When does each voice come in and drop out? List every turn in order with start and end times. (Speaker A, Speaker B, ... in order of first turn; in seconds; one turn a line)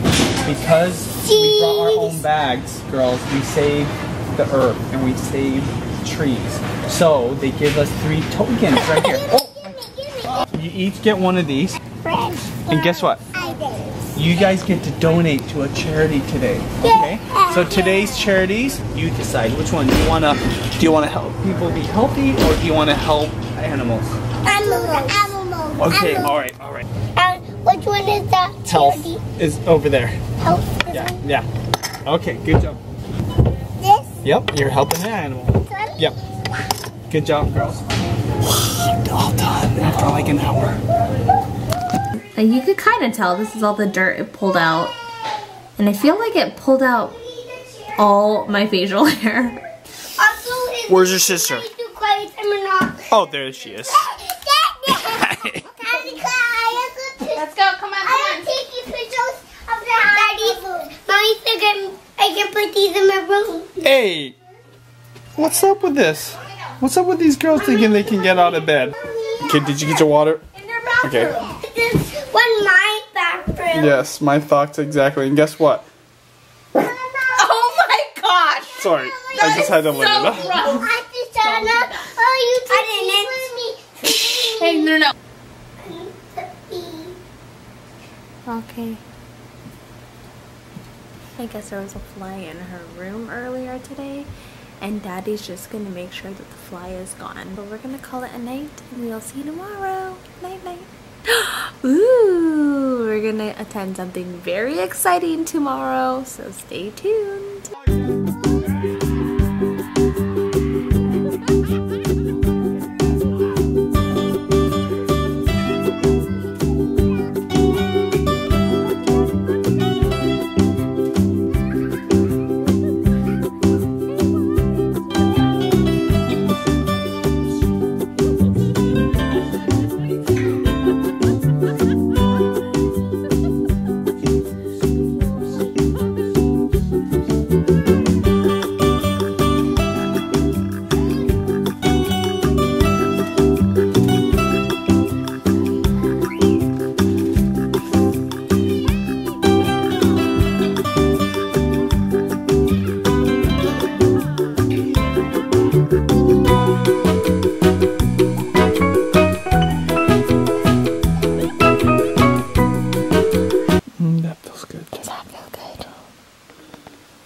Speaker A: 0.4-9.7
Speaker B: 1.2-2.2
Speaker B: 8.7-10.5
Speaker A: 10.4-11.8
Speaker B: 12.0-14.1
Speaker A: 12.7-13.2
Speaker A: 14.1-24.2
Speaker B: 16.8-18.3
Speaker B: 24.4-26.4
Speaker A: 25.8-26.9
Speaker B: 27.1-29.2
Speaker A: 28.6-30.2
Speaker B: 30.4-31.2
Speaker A: 30.9-31.5
Speaker A: 32.0-32.8
Speaker B: 33.8-34.1
Speaker A: 34.2-36.1
Speaker B: 35.7-36.1
Speaker A: 37.1-37.9
Speaker A: 38.6-40.8
Speaker C: 42.2-44.9
Speaker C: 45.8-47.1
Speaker B: 47.4-47.9
Speaker C: 48.0-49.6
Speaker B: 50.2-53.2
Speaker A: 50.9-51.7
Speaker A: 53.1-54.1
Speaker B: 53.8-55.2
Speaker A: 54.9-55.6
Speaker B: 55.8-57.4
Speaker C: 57.3-58.5
Speaker B: 58.0-63.7
Speaker A: 63.8-64.3
Speaker A: 65.4-70.4
Speaker B: 69.0-69.8
Speaker C: 70.6-71.5
Speaker A: 71.0-71.4
Speaker B: 71.2-74.0
Speaker A: 73.7-75.8
Speaker B: 76.7-77.7
Speaker C: 77.3-78.9
Speaker A: 78.8-80.7
Speaker B: 79.0-85.0
Speaker C: 79.4-80.8
Speaker C: 81.4-83.3
Speaker C: 84.6-85.0
Speaker B: 85.8-87.1
Speaker C: 88.5-89.0
Speaker C: 91.4-94.3
Speaker C: 94.8-107.7
Speaker A: 164.0-165.1
Speaker C: 165.0-165.9